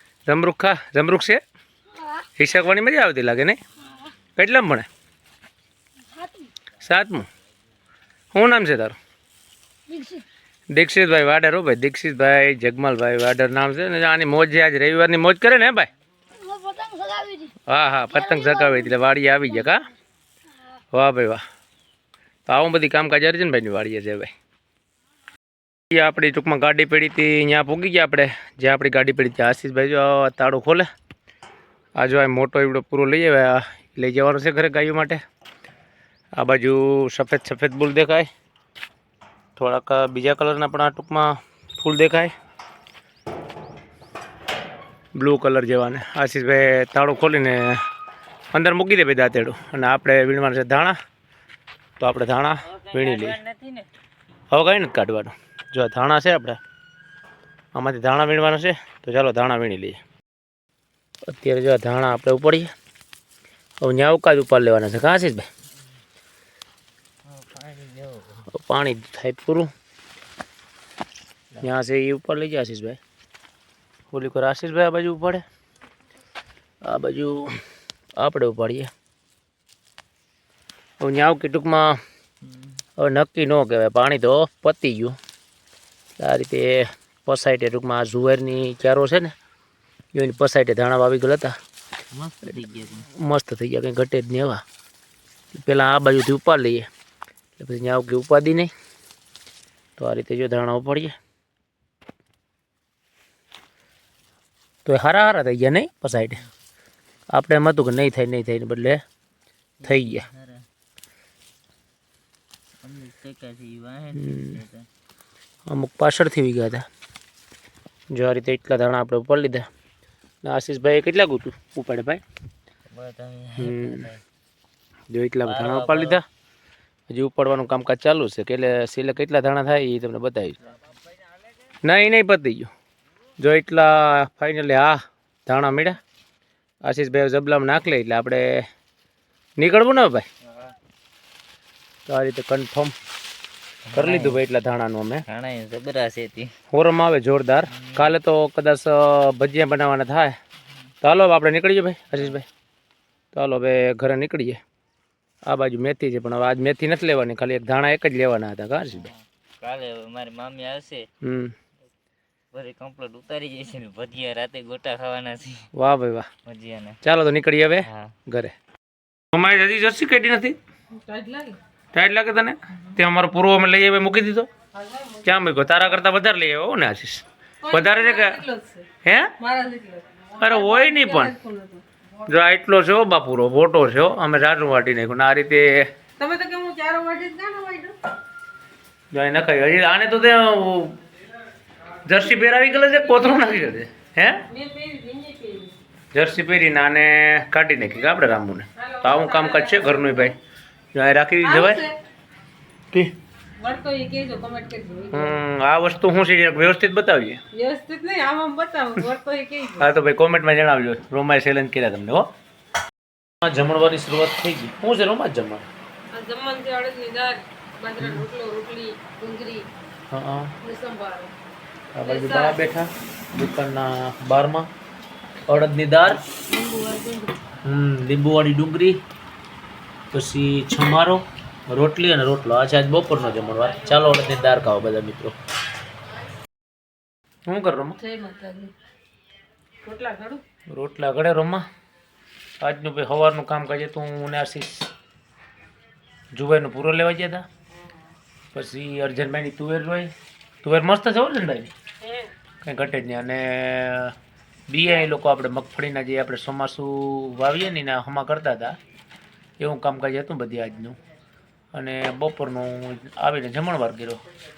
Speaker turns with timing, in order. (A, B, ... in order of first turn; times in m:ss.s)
0:00.2-0:01.4 A
0:02.4-0:03.6 A
0:04.4-0:04.8 A
0:06.8-0:07.2 A
0:08.3-0:09.0 A
0:10.7-0:15.9 A
0:16.5-0:17.4 B
0:17.7-0:19.8 A
0:20.9-0:21.4 A
0:22.4-0:24.3 A
0:25.9-0:30.8 A
0:32.0-0:35.2 A
0:36.4-0:38.3 A
0:39.6-0:42.3 A
0:45.2-0:47.8 A
0:48.5-0:51.0 A
0:52.0-0:53.4 A
0:52.7-0:53.9 C
0:54.5-0:56.6 A
0:57.7-1:00.0 A
1:01.3-1:02.7 A
1:03.8-1:05.5 A
1:07.3-1:08.4 C
1:08.5-1:09.7 A
1:11.6-1:13.0 A
1:14.1-1:15.4 A
1:16.8-1:17.6 A
1:18.2-1:18.9 A
1:21.0-1:22.0 A
1:22.4-1:22.7 C
1:23.0-1:25.2 A
1:26.2-1:29.3 A
1:30.1-1:31.5 A
1:32.1-1:33.1 C
1:33.0-1:34.6 A
1:35.5-1:36.9 A
1:37.6-1:38.7 A
1:40.0-1:41.1 A
1:44.8-1:46.4 A
1:47.3-1:49.0 A
1:49.8-1:50.6 C
1:49.8-1:50.2 A
1:52.8-1:54.9 C
1:54.2-1:54.6 A
1:55.7-1:56.8 A
1:58.1-1:59.6 A
2:00.4-2:02.2 A
2:02.9-2:04.2 C
2:03.6-2:04.1 A
2:05.1-2:06.2 A
2:05.4-2:06.2 C
2:07.1-2:10.6 A
2:11.8-2:12.7 A
2:13.4-2:16.0 A
2:16.8-2:18.6 A
2:19.6-2:20.3 A
2:22.1-2:22.9 A
2:23.9-2:24.4 C
2:24.0-2:25.2 A
2:25.3-2:26.5 C
2:26.7-2:30.3 A
2:27.7-2:28.1 C
2:31.0-2:32.4 A
2:33.3-2:34.6 A
2:35.4-2:39.1 A
2:38.9-2:41.0 C
2:41.2-2:41.5 A
2:42.5-2:45.7 C
2:45.8-2:46.3 A
2:46.4-2:47.0 C
2:47.0-2:48.5 A
2:47.8-2:48.1 C
2:49.3-2:50.6 A
2:51.0-2:51.6 B
2:51.9-2:54.5 A
2:54.7-2:55.8 B
2:55.2-2:58.4 A
2:57.6-2:58.9 B
2:59.0-2:59.3 A
2:59.4-3:01.8 B
3:00.4-3:01.3 A
3:02.2-3:05.9 A
3:06.2-3:08.0 B
3:09.1-3:11.0 A
3:12.0-3:14.4 A
3:14.5-3:15.7 B
3:16.1-3:20.4 A
3:18.8-3:20.3 B
3:20.9-3:21.9 A
3:21.4-3:21.9 B
3:23.6-3:25.4 B
3:25.1-3:27.4 A
3:27.5-3:29.9 B
3:29.8-3:32.3 A
3:33.4-3:35.6 A
3:36.1-3:39.7 B
3:38.0-3:38.3 A
3:40.1-3:40.5 A
3:40.6-3:41.3 B
3:41.9-3:44.7 A
3:42.0-3:42.7 B
3:45.5-3:46.2 A
3:46.3-3:47.4 B
3:47.6-3:49.0 A
3:50.1-3:55.3 A
3:57.5-3:58.0 A
3:58.0-3:58.7 B
3:59.8-4:00.4 B
4:00.7-4:01.6 A
4:02.6-4:04.9 A
4:06.3-4:07.4 A
4:08.5-4:10.1 A
4:10.6-4:11.7 A
4:12.6-4:14.1 A
4:14.7-4:18.7 A
4:19.6-4:21.0 A
4:21.7-4:24.2 A